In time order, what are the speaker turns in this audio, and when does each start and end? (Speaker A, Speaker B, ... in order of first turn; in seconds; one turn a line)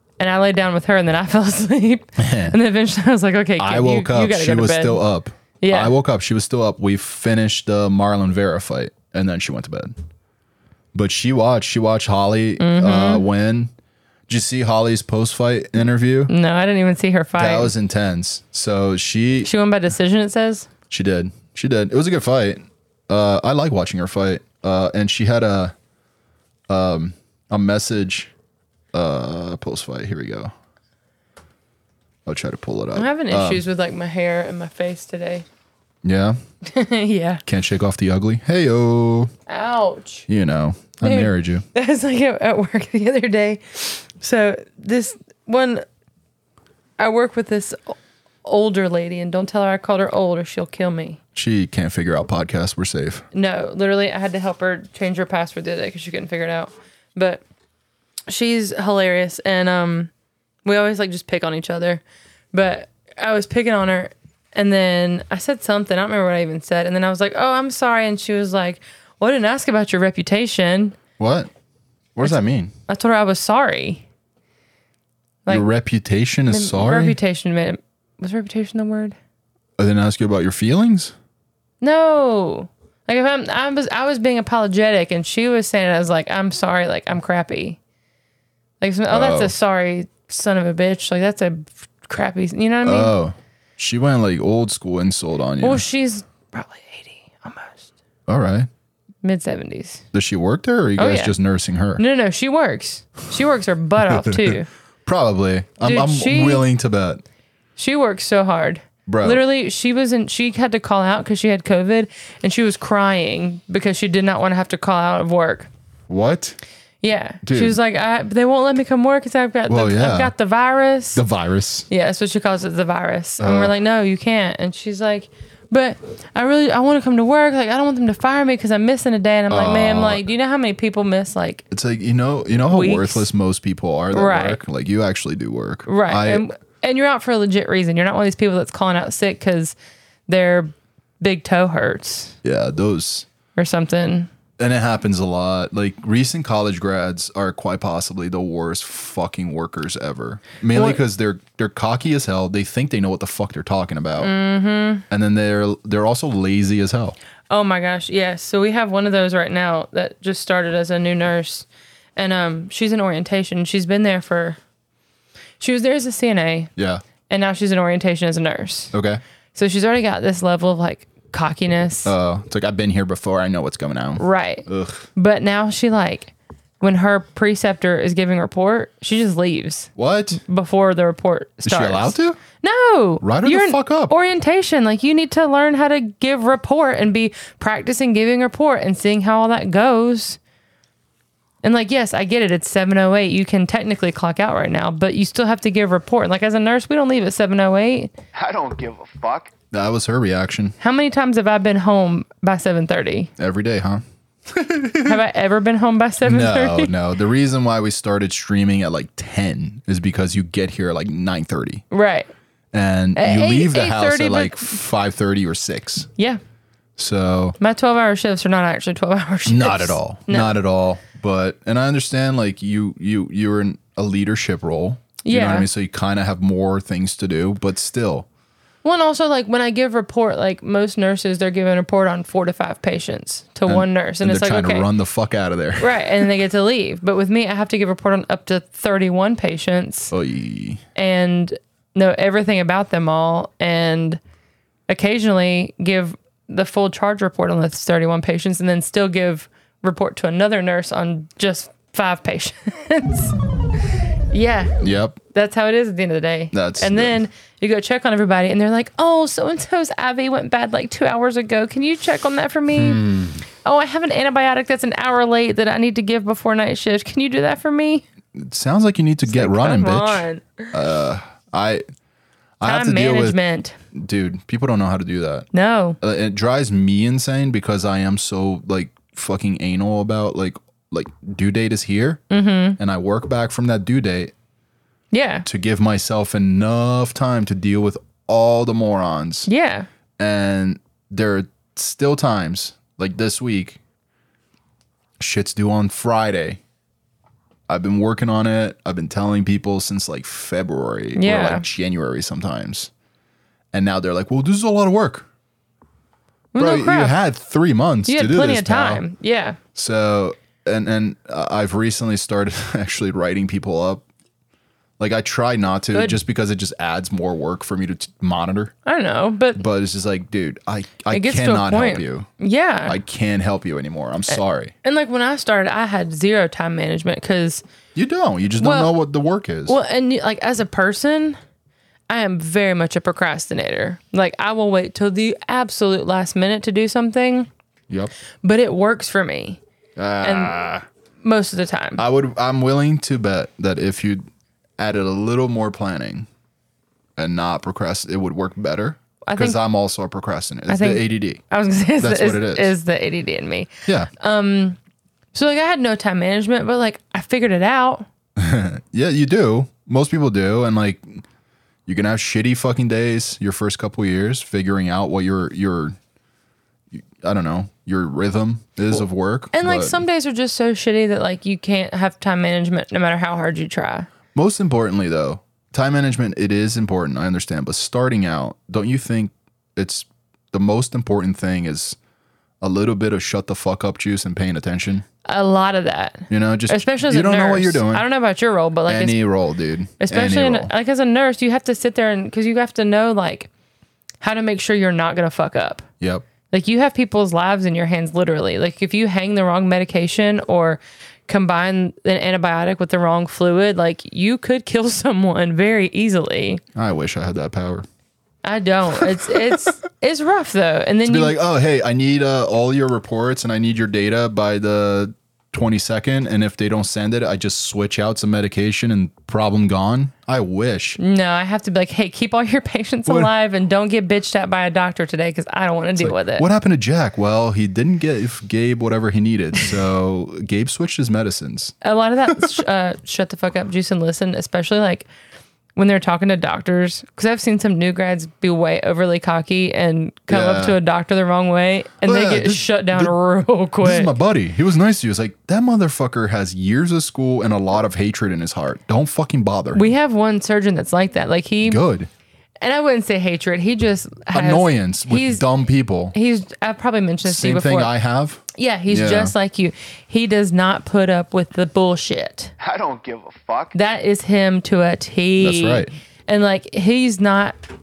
Speaker A: 0.2-5.0
Speaker B: 2.2-2.6
Speaker B: 3.6-9.9
Speaker A: 5.6-5.9
Speaker B: 10.9-13.7
Speaker A: 12.6-13.2
Speaker B: 14.3-16.3
Speaker A: 16.3-17.7
Speaker B: 17.4-19.5
Speaker A: 19.4-20.7
Speaker B: 20.9-25.7
Speaker B: 26.7-28.3
Speaker B: 28.9-30.5
Speaker B: 32.2-33.6
Speaker A: 32.9-35.4
Speaker B: 36.0-36.4
Speaker A: 36.6-37.4
Speaker B: 37.5-39.3
Speaker A: 39.5-40.3
Speaker B: 40.3-41.6
Speaker A: 41.0-45.8
Speaker A: 47.0-51.2
Speaker B: 51.3-53.2
Speaker A: 53.3-57.4
Speaker A: 58.3-60.1
Speaker A: 60.6-71.0
Speaker B: 71.2-71.5
Speaker B: 72.1-72.7
Speaker A: 72.2-74.0
Speaker B: 75.5-77.2
Speaker A: 76.5-79.2
Speaker B: 79.8-81.1
Speaker A: 81.8-87.8
Speaker A: 88.8-93.1
Speaker B: 89.1-89.5
Speaker B: 92.8-95.8
Speaker A: 95.6-97.9
Speaker B: 98.3-98.7
Speaker A: 99.2-100.0
Speaker B: 100.1-102.0
Speaker A: 101.0-101.3
Speaker A: 102.0-104.7
Speaker B: 104.0-107.2
Speaker A: 105.8-106.6
Speaker A: 107.8-115.7
Speaker B: 109.0-109.4
Speaker B: 116.1-116.6
Speaker A: 117.0-121.2
Speaker B: 117.4-117.8
Speaker B: 119.7-120.3
Speaker B: 121.1-121.9
Speaker A: 121.9-131.6
Speaker B: 123.4-123.7
Speaker B: 129.5-130.3
Speaker B: 131.7-136.4
Speaker A: 132.6-133.3
Speaker A: 134.1-134.6
Speaker A: 135.8-139.7
Speaker A: 140.3-142.3
Speaker B: 142.4-143.3
Speaker A: 143.6-144.3
Speaker B: 144.6-154.3
Speaker A: 150.7-151.0
Speaker A: 154.2-155.0
Speaker B: 155.1-157.2
Speaker A: 157.5-164.6
Speaker A: 165.6-166.7
Speaker B: 166.8-167.0
Speaker A: 167.3-168.9
Speaker B: 168.9-169.2
Speaker A: 169.5-172.1
Speaker B: 172.0-175.1
Speaker A: 174.2-190.4
Speaker B: 179.9-180.4
Speaker B: 181.6-182.4
Speaker B: 183.2-184.1
Speaker A: 191.6-198.1
Speaker C: 198.3-199.5
Speaker B: 199.7-200.8
Speaker A: 200.8-203.3
Speaker B: 203.4-205.2
Speaker A: 205.0-206.9
Speaker B: 206.2-211.8
Speaker A: 211.9-212.3
Speaker B: 212.7-216.1
Speaker A: 213.1-214.8
Speaker B: 217.0-217.6
Speaker A: 217.6-220.5
Speaker B: 219.4-228.2
Speaker A: 225.2-225.7
Speaker A: 228.8-234.9
Speaker B: 233.7-236.2
Speaker A: 235.8-240.1
Speaker B: 240.1-240.8
Speaker A: 240.9-244.2
Speaker A: 244.9-253.3
Speaker A: 254.3-254.8
Speaker B: 254.8-255.2
Speaker A: 255.3-263.0
Speaker B: 256.5-257.2
Speaker B: 262.7-263.4
Speaker A: 263.6-268.0
Speaker B: 268.3-271.8
Speaker A: 269.3-270.7
Speaker B: 272.6-273.4
Speaker A: 272.6-273.8
Speaker B: 273.9-275.5
Speaker A: 275.5-276.0
Speaker B: 276.0-282.2
Speaker A: 282.3-282.8
Speaker B: 282.8-284.3
Speaker A: 285.1-285.4
Speaker B: 285.4-289.5
Speaker A: 289.5-289.9
Speaker B: 290.2-293.8
Speaker B: 295.2-296.6
Speaker B: 297.7-302.9
Speaker A: 301.1-301.6
Speaker B: 303.7-305.3
Speaker A: 306.5-307.2
Speaker B: 306.6-309.0
Speaker A: 308.1-309.6
Speaker B: 309.7-314.0
Speaker B: 315.0-318.7
Speaker A: 315.9-316.2
Speaker A: 318.8-319.6
Speaker B: 319.5-322.3
Speaker A: 321.1-323.0
Speaker B: 322.9-324.7
Speaker A: 324.3-327.6
Speaker B: 327.9-329.8
Speaker A: 328.6-328.9
Speaker A: 329.6-331.4
Speaker A: 332.1-337.5
Speaker A: 338.4-339.6
Speaker B: 339.9-340.9
Speaker A: 340.2-340.6
Speaker A: 341.2-342.0
Speaker B: 342.0-344.3
Speaker B: 344.8-346.3
Speaker B: 347.2-351.4
Speaker A: 349.2-349.6
Speaker A: 350.7-354.8
Speaker B: 352.0-352.7
Speaker A: 355.3-358.1
Speaker B: 358.4-361.2
Speaker B: 361.9-366.0
Speaker B: 366.9-370.0
Speaker A: 369.5-374.1
Speaker B: 374.3-382.0
Speaker B: 382.6-385.1
Speaker A: 385.2-389.2
Speaker B: 386.3-388.0
Speaker B: 388.9-390.7
Speaker A: 390.0-393.5
Speaker A: 394.2-395.9
Speaker B: 396.0-396.2
Speaker A: 396.5-406.6
Speaker B: 406.7-407.9
Speaker A: 408.4-411.4
Speaker B: 411.0-421.0
Speaker A: 421.0-426.4
Speaker B: 426.0-431.8
Speaker A: 431.8-435.1
Speaker B: 432.3-432.5
Speaker A: 435.8-444.1
Speaker B: 440.3-440.8
Speaker B: 442.0-443.1
Speaker B: 443.8-449.9
Speaker A: 449.7-451.8
Speaker B: 451.6-452.1
Speaker A: 452.6-455.4
Speaker B: 454.3-456.1
Speaker A: 456.1-457.9
Speaker B: 457.2-459.3
Speaker A: 458.5-462.5
Speaker C: 462.6-463.8
Speaker A: 463.7-467.6
Speaker B: 465.4-465.9